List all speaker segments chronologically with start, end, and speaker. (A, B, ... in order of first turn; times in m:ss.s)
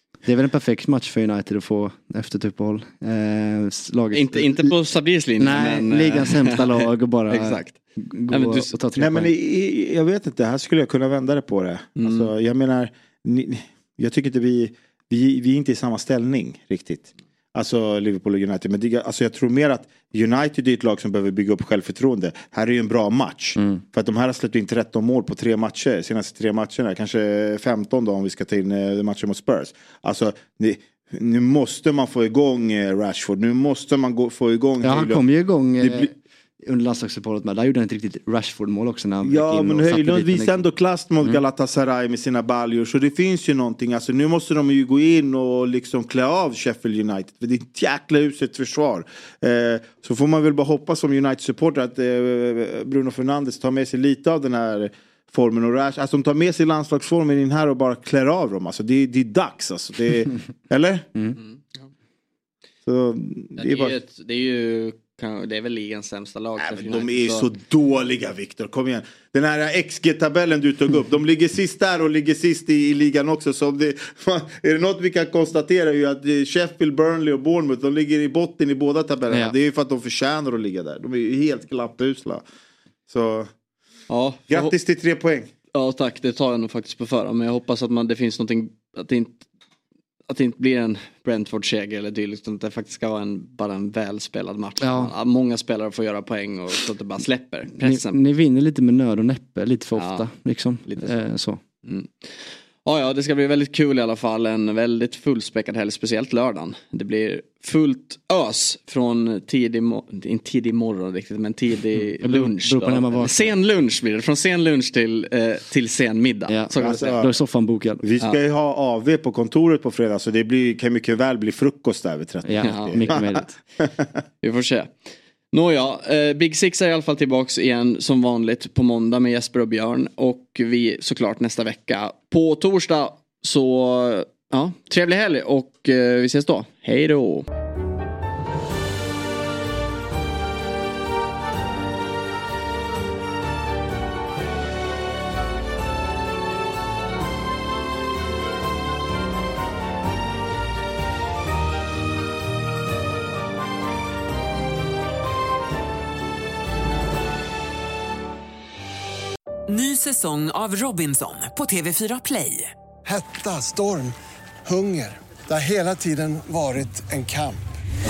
0:00.2-0:04.7 A
0:04.1-0:07.8 B
0:05.4-0:09.3 A
0:08.3-0:08.7 B
0:09.0-0:35.2 C
0:12.0-0:12.3 B
0:34.8-0:40.6 A
0:35.8-0:36.1 C
0:39.2-1:01.1 C
1:02.8-1:03.9 C
1:03.6-1:07.5 B
1:06.6-1:22.4 C
1:23.1-1:23.5 C
1:24.1-1:24.7 B
1:24.5-1:25.5 C
1:25.7-1:29.4 B
1:30.3-1:38.2 B
1:34.8-1:35.1 A
1:37.8-1:41.6 A
1:40.0-1:40.2 B
1:40.9-1:41.2 B
1:41.8-1:57.2 B
1:52.2-1:53.5 A
1:56.5-1:58.0 A
1:56.7-1:57.3 C
1:58.0-2:04.0 C
2:02.4-2:03.5 A
2:02.6-2:03.3 B
2:04.4-2:04.9 B
2:05.5-2:17.4 B
2:39.7-2:42.7 D
2:43.0-2:47.6 E